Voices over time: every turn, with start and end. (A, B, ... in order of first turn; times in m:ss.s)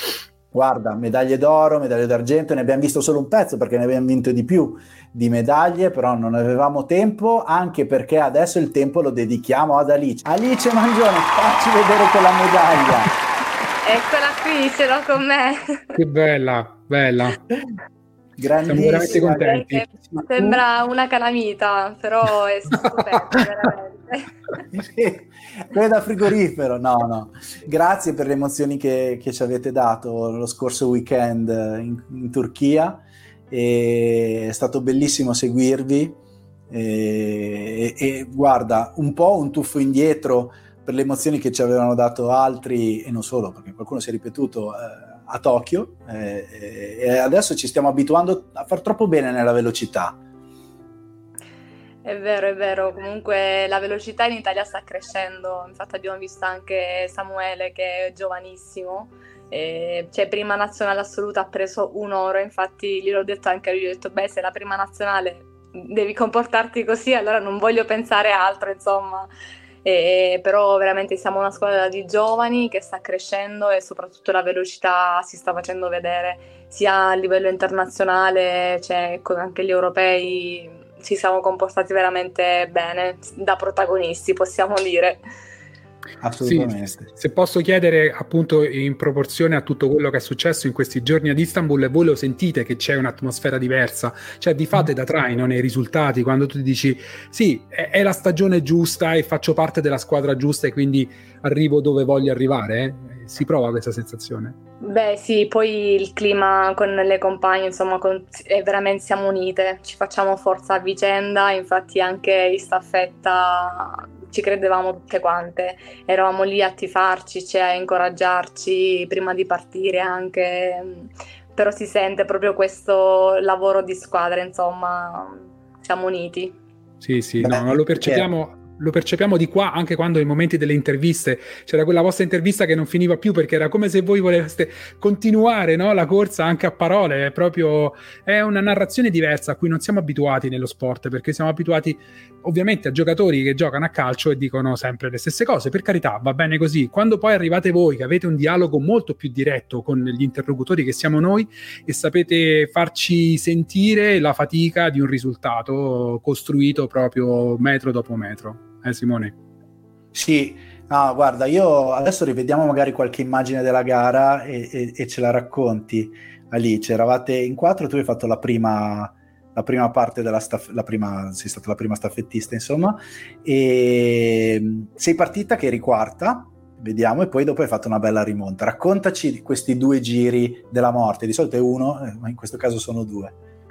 0:00.5-0:13.1 A
0:13.8-0:15.9 B
0:15.9-0:17.4 C
0:18.4-0:20.5 A
0:18.7-0:19.8 C
0:19.0-0:24.3 B
0:24.7-0:36.2 A
0:36.7-0:50.2 A
0:52.0-1:09.3 B
1:09.8-1:25.2 B
1:26.2-1:27.1 A
1:26.4-1:44.5 C
1:44.8-2:06.6 B
2:07.0-2:39.3 C
2:07.4-2:08.3 A
2:40.1-3:03.3 A